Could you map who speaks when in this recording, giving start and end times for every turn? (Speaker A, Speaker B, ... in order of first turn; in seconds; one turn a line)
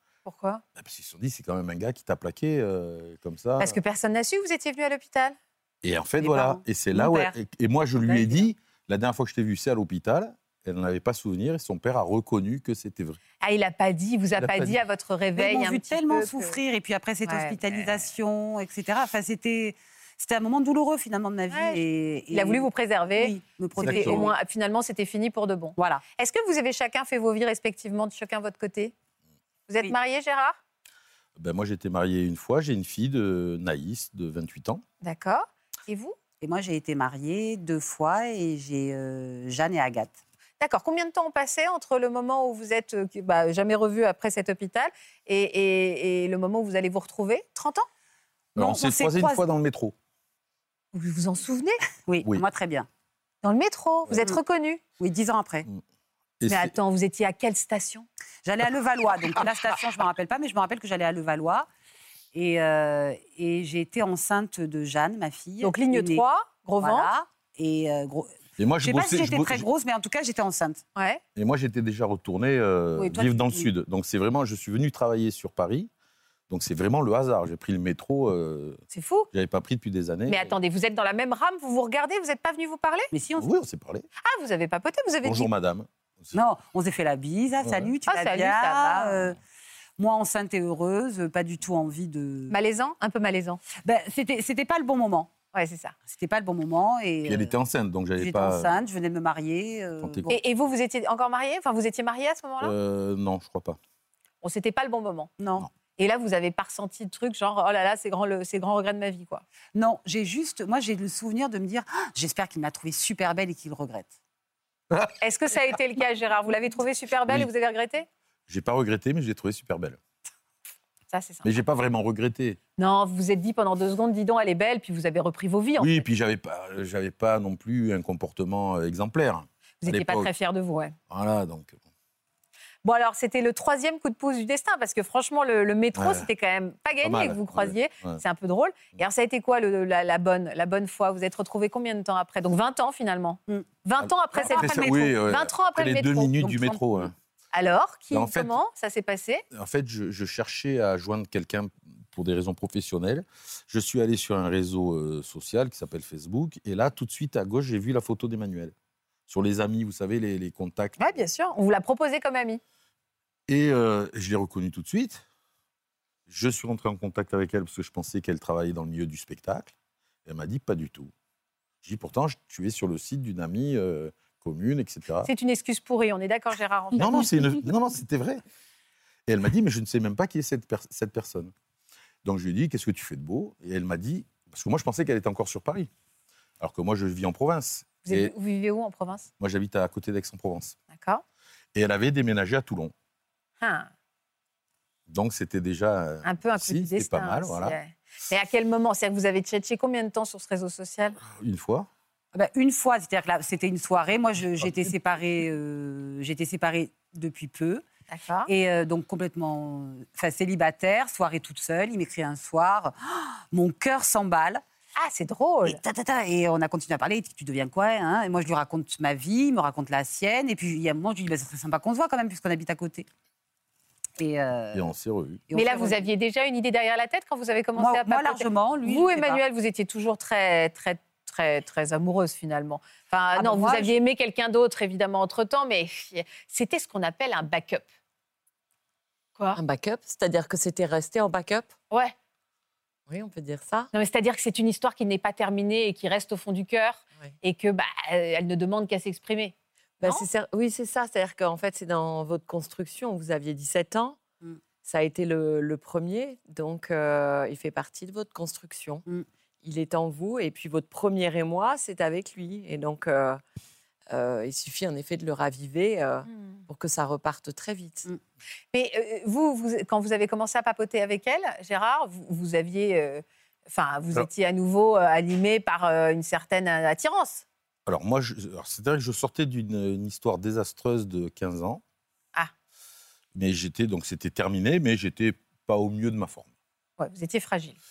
Speaker A: 0.2-0.6
Speaker B: 0.8-3.8
Speaker A: 3.6-5.3
Speaker B: 5.8-13.2
Speaker C: 6.2-6.6
Speaker A: 7.0-7.3
Speaker A: 8.1-8.4
Speaker A: 13.4-16.6
Speaker B: 14.4-14.8
Speaker C: 15.4-24.3
Speaker A: 17.2-17.6
Speaker A: 21.5-28.9
Speaker B: 23.8-24.3
Speaker C: 25.8-26.0
Speaker A: 29.7-30.6
Speaker B: 31.4-34.8
Speaker A: 35.0-36.1
Speaker C: 36.4-40.2
Speaker A: 40.6-47.9
Speaker B: 48.5-49.9
Speaker C: 48.5-49.4
Speaker A: 50.9-51.8
Speaker C: 52.1-52.9
Speaker A: 53.4-54.8
Speaker C: 55.0-55.7
Speaker B: 56.4-56.7
Speaker A: 56.5-58.1
Speaker C: 58.4-61.7
Speaker C: 62.3-66.2
Speaker A: 65.6-67.1
Speaker C: 66.8-70.8
Speaker B: 68.6-69.7
Speaker A: 71.0-71.2
Speaker B: 71.3-75.9
Speaker C: 73.1-73.7
Speaker B: 76.5-78.8
Speaker A: 78.9-79.3
Speaker B: 79.3-80.6
Speaker A: 80.3-83.1
Speaker C: 83.1-83.5
Speaker B: 83.4-84.1
Speaker A: 84.2-85.5
Speaker B: 85.2-86.3
Speaker C: 86.3-89.4
Speaker B: 87.6-87.9
Speaker A: 88.1-89.3
Speaker C: 90.0-92.5
Speaker A: 92.5-93.6
Speaker C: 93.8-95.3
Speaker A: 95.5-95.9
Speaker C: 96.0-97.5
Speaker B: 97.2-98.7
Speaker C: 98.2-100.4
Speaker B: 100.0-100.3
Speaker A: 100.3-102.7
Speaker B: 102.6-103.8
Speaker A: 104.4-105.3
Speaker C: 105.4-105.7
Speaker A: 106.0-109.4
Speaker C: 109.7-114.1
Speaker A: 115.2-118.0
Speaker B: 118.5-120.0
Speaker A: 121.1-121.5
Speaker B: 121.4-122.6
Speaker A: 122.8-126.0
Speaker B: 125.8-130.3
Speaker A: 129.8-130.9
Speaker B: 131.1-131.8
Speaker A: 132.8-146.3
Speaker B: 135.9-136.3
Speaker B: 137.0-138.2
Speaker B: 144.0-147.1
Speaker C: 144.3-145.1
Speaker C: 146.4-146.8
Speaker A: 147.5-149.4
Speaker B: 148.1-148.6
Speaker B: 149.5-158.7
Speaker B: 159.3-161.0
Speaker A: 161.0-162.6
Speaker B: 163.5-165.2
Speaker B: 166.3-169.7
Speaker B: 170.2-171.1
Speaker B: 171.8-175.3
Speaker A: 175.2-177.5
Speaker B: 176.9-178.4
Speaker B: 179.2-181.5
Speaker B: 182.2-185.9
Speaker B: 186.6-188.3
Speaker A: 188.0-189.3
Speaker B: 189.4-190.8
Speaker A: 190.9-191.2
Speaker B: 191.7-192.9
Speaker A: 193.6-193.9
Speaker B: 195.1-197.8
Speaker A: 196.2-201.2
Speaker B: 201.2-201.9
Speaker C: 202.3-207.8
Speaker A: 208.1-208.5
Speaker C: 208.5-214.6
Speaker A: 215.0-215.8
Speaker C: 215.7-223.1
Speaker C: 224.2-224.9
Speaker B: 224.7-225.4
Speaker C: 225.5-226.0
Speaker A: 225.5-237.8
Speaker C: 227.8-229.4
Speaker C: 233.3-233.9
Speaker D: 239.5-241.7
Speaker D: 243.1-243.9
Speaker A: 243.9-250.3
Speaker D: 250.0-254.2
Speaker D: 254.8-259.0
Speaker D: 259.6-263.4
Speaker D: 264.1-268.1
Speaker A: 266.3-266.6
Speaker A: 268.7-277.4
Speaker B: 277.9-281.8
Speaker B: 283.3-286.5
Speaker A: 287.0-287.8